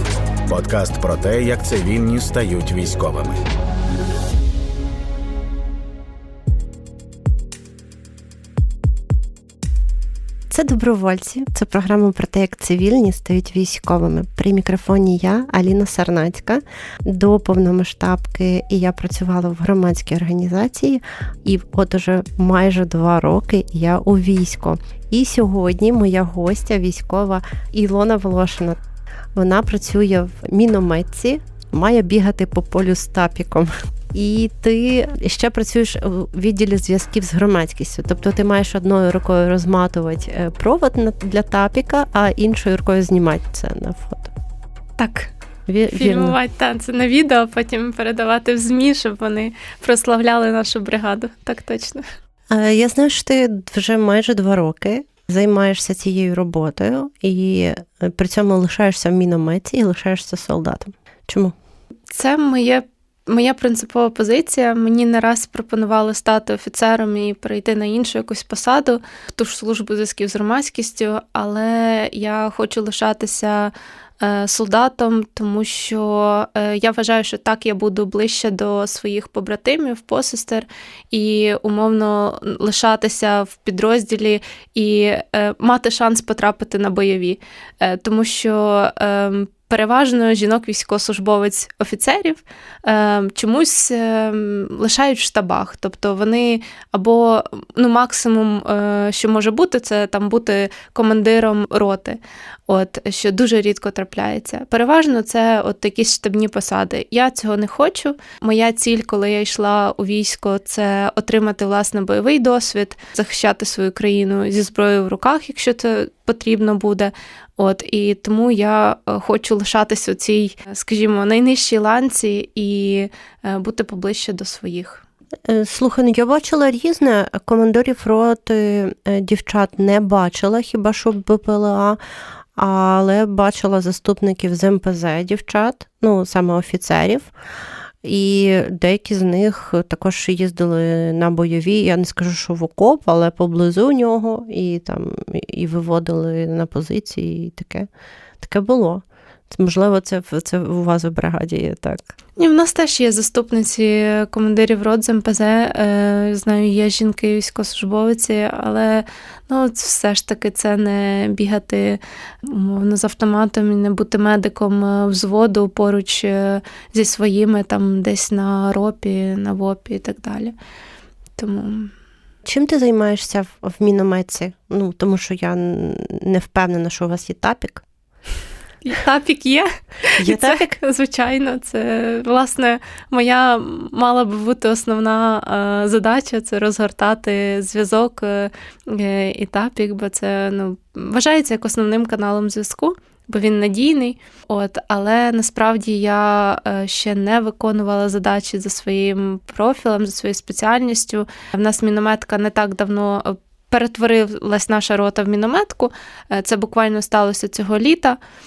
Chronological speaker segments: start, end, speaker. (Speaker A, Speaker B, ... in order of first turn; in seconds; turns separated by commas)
Speaker A: 0.5-3.4, Speaker B: 10.5-28.8, Speaker B: 29.3-44.3, Speaker C: 45.0-45.3, Speaker B: 45.7-46.4, Speaker C: 45.9-52.0, Speaker B: 52.5-61.5, Speaker C: 62.1-125.0, Speaker B: 125.5-132.0, Speaker B: 132.6-137.3, Speaker B: 138.0-147.9, Speaker B: 148.4-152.1, Speaker C: 152.4-170.5, Speaker C: 171.4-171.9, Speaker B: 172.4-177.8, Speaker C: 178.8-208.2, Speaker B: 180.2-180.8